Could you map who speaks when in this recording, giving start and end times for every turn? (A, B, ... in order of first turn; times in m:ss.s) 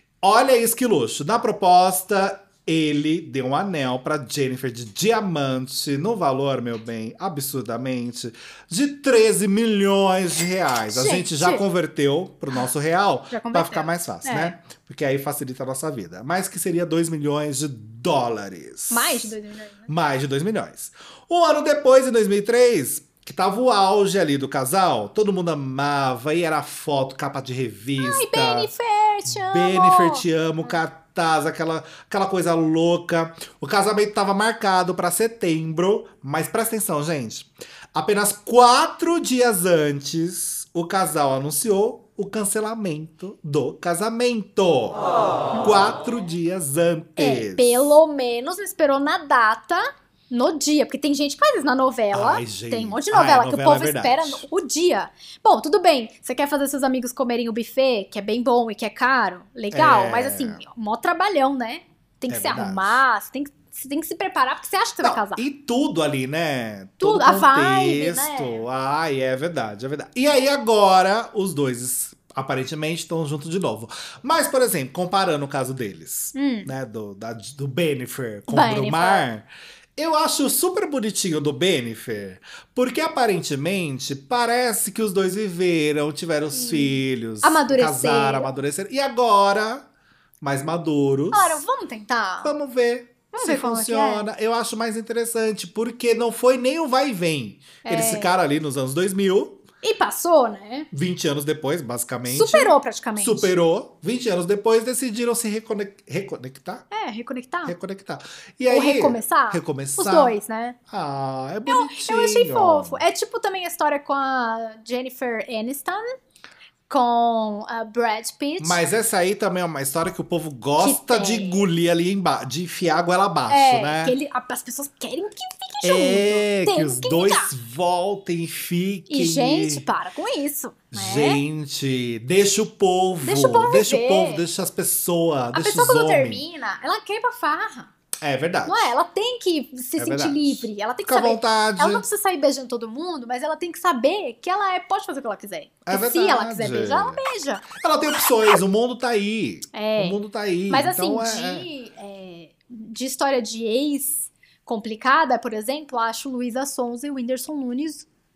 0:00.2-0:19.4 A
0:10.9-0:11.6 B
0:13.3-0:14.5 B
0:18.9-0:19.9 B
0:19.9-0:28.7 A
0:28.0-0:30.8 B
0:29.3-0:45.0 A
0:45.5-0:48.0 A
0:47.2-1:05.4 B
0:52.1-0:54.4 A
0:59.7-1:00.6 A
1:02.3-1:03.0 A
1:05.0-1:29.8 A
1:07.0-1:08.6 B
1:16.3-1:16.7 B
1:18.5-1:19.3 B
1:26.5-1:28.5 B
1:30.4-1:31.6 A
1:31.3-1:32.5 B
1:32.4-1:39.6 A
1:33.3-1:34.3 B
1:37.8-1:38.3 B
1:39.8-1:40.9 B
1:40.9-1:46.8 A
1:42.3-1:43.5 B
1:46.9-1:47.7 B
1:47.6-1:50.4 A
1:48.7-1:50.8 B
1:50.9-1:53.0 A
1:51.7-1:56.0 B
1:56.9-1:58.8 B
1:58.6-2:04.2 A
2:00.8-2:01.7 B
2:03.5-2:07.5 B
2:05.8-2:09.8 A
2:09.1-2:11.4 B
2:10.9-2:16.4 A
2:13.2-2:14.4 B
2:15.5-2:17.9 B
2:18.2-2:18.9 A
2:18.6-2:27.6 B
2:20.0-2:22.0 A
2:25.8-2:27.2 A
2:27.8-2:31.7 A
2:29.7-2:30.2 B
2:30.7-2:38.1 B